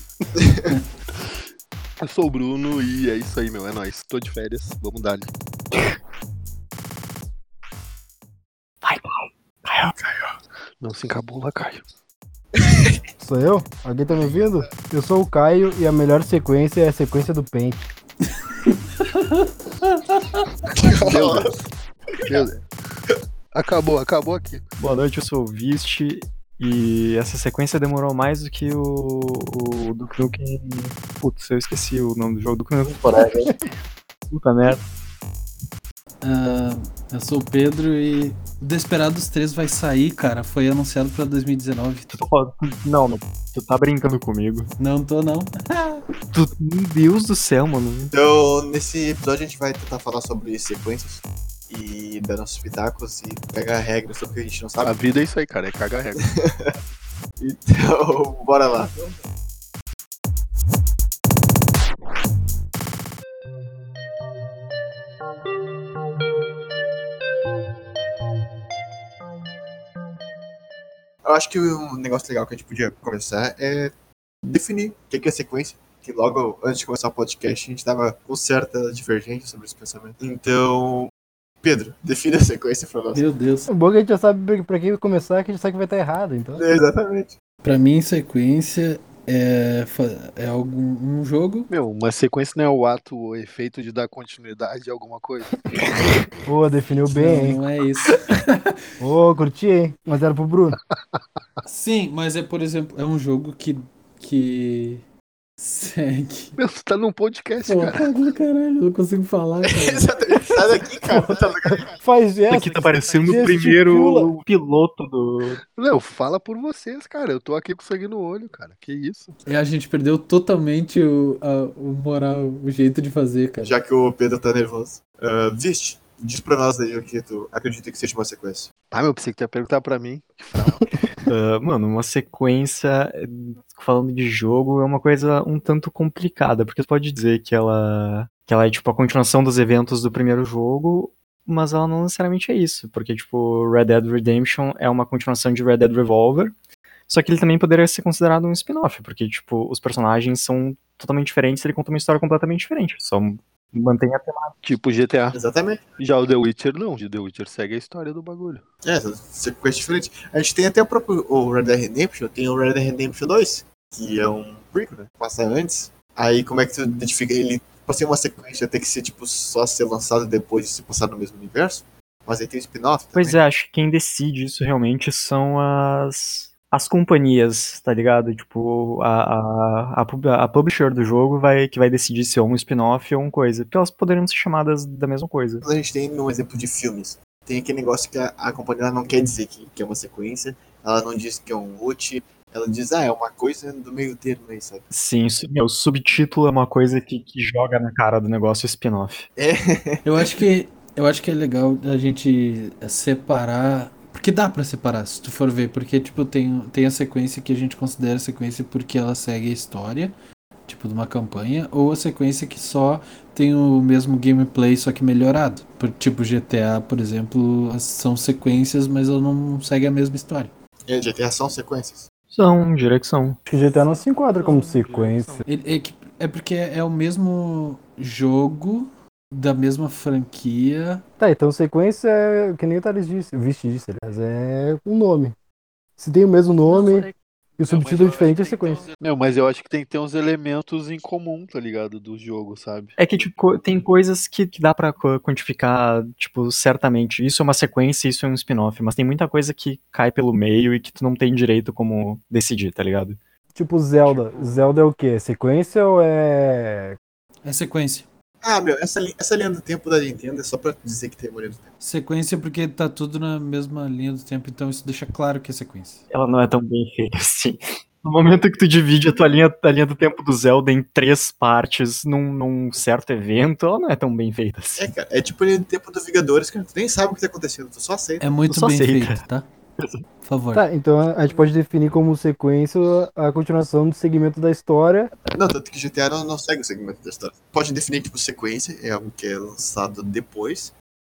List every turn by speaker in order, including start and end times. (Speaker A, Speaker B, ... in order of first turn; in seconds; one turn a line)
Speaker A: 0.3-0.7
Speaker B: 2.0-5.9
Speaker C: 8.8-9.9
Speaker B: 10.8-11.8
Speaker A: 12.6-13.0
Speaker D: 13.2-17.9
Speaker A: 14.2-14.7
Speaker E: 19.1-20.4
Speaker A: 20.7-21.5
Speaker B: 21.0-21.6
Speaker B: 22.2-22.6
Speaker B: 23.5-24.6
Speaker C: 24.8-33.5
Speaker A: 33.0-33.5
Speaker C: 34.3-34.8
Speaker E: 36.2-42.2
Speaker C: 42.1-44.7
Speaker E: 44.8-46.0
Speaker C: 46.3-48.1
Speaker A: 48.1-55.0
Speaker B: 54.8-56.2
Speaker A: 56.2-56.7
Speaker A: 57.4-59.2
Speaker A: 71.2-83.2
Speaker E: 83.1-83.7
Speaker D: 83.7-86.6
Speaker A: 86.5-87.3
Speaker E: 87.6-91.7
Speaker B: 91.7-95.7
Speaker D: 96.4-97.6
Speaker E: 97.1-98.7
Speaker D: 99.0-100.8
Speaker E: 101.7-105.0
Speaker E: 105.6-106.6
Speaker B: 106.6-108.1
Speaker E: 107.7-110.2
Speaker A: 109.7-112.0
Speaker D: 112.0-114.3
Speaker C: 112.5-115.6
Speaker B: 115.7-119.4
Speaker E: 119.5-123.8
Speaker A: 123.6-128.7
Speaker B: 128.9-130.9
Speaker C: 131.3-146.5
Speaker C: 147.1-154.5
Speaker B: 154.6-155.4
Speaker A: 155.3-155.9
Speaker B: 156.0-158.6
Speaker A: 158.8-173.4
Speaker C: 173.1-185.6
Speaker A: 185.6-194.9
Speaker C: 194.9-199.3
Speaker A: 199.4-200.3
Speaker E: 200.0-210.1
Speaker E: 210.7-220.5
Speaker A: 220.9-222.1
Speaker C: 222.3-223.4
Speaker D: 223.5-225.4
Speaker E: 224.4-224.9
Speaker E: 225.4-231.0
Speaker D: 231.2-235.3
Speaker D: 236.0-238.9
Speaker B: 236.7-242.9
Speaker C: 243.0-253.2
Speaker D: 253.5-257.0
Speaker C: 254.1-254.5
Speaker E: 257.4-258.1
Speaker A: 258.4-261.7
Speaker E: 261.8-266.0
Speaker C: 266.1-274.9
Speaker A: 274.8-278.3
Speaker E: 278.2-279.5
Speaker C: 278.5-279.2
Speaker C: 279.8-280.0
Speaker E: 280.2-280.6
Speaker D: 280.5-285.1
Speaker A: 285.3-290.7